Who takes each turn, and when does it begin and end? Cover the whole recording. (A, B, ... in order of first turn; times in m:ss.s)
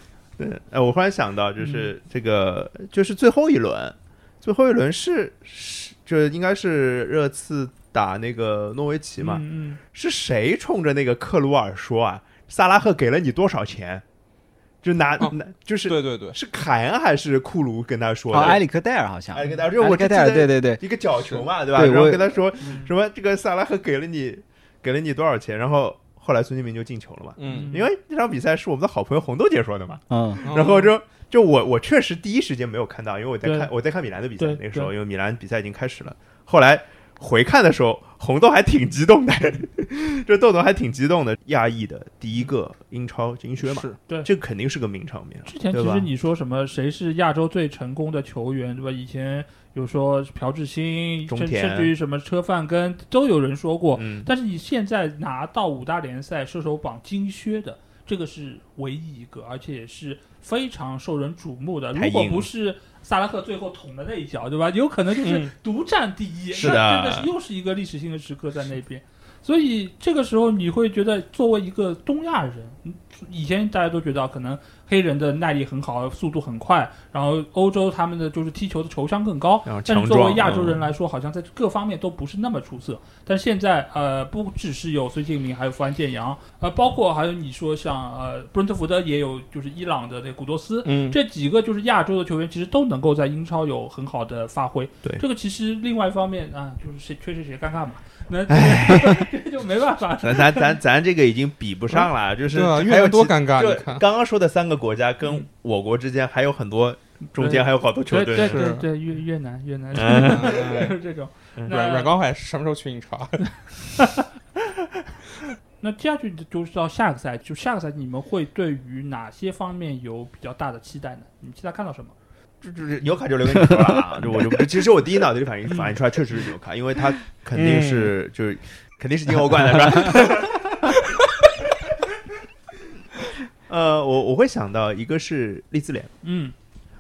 0:00.4-0:14.0 A
0:01.6-0:01.9 B
0:09.2-0:09.8 B
0:14.8-0:18.6 A
0:15.2-0:16.4 C
0:18.3-0:20.8 D
0:19.3-0:46.1 A
0:21.2-0:21.5 C
0:21.7-0:22.4 D
0:22.6-0:22.9 B
0:27.4-0:27.8 C
0:27.5-0:27.9 B
0:30.1-0:30.5 D
0:30.4-0:30.9 C
0:33.4-0:33.7 B
0:34.4-0:34.9 B
0:43.6-0:44.0 C
0:45.5-1:40.8 B
0:51.3-0:51.9 A
0:54.0-0:54.3 A
1:01.9-1:02.5 A
1:05.2-1:05.5 C
1:06.5-1:07.3 A
1:19.6-1:20.8 A
1:30.8-1:31.2 C
1:38.5-1:39.3 A
1:40.2-1:48.7 A
1:41.9-1:44.1 C
1:47.3-1:52.1 B
1:48.3-1:48.9 C
1:49.9-1:50.7 A
1:50.0-1:51.0 C
1:51.7-1:54.0 C
1:55.8-2:02.1 B
2:02.6-2:11.0 A
2:03.6-2:04.0 D
2:05.7-2:06.0 B
2:07.5-2:08.1 C
2:13.7-2:16.1 A
2:16.2-2:16.5 B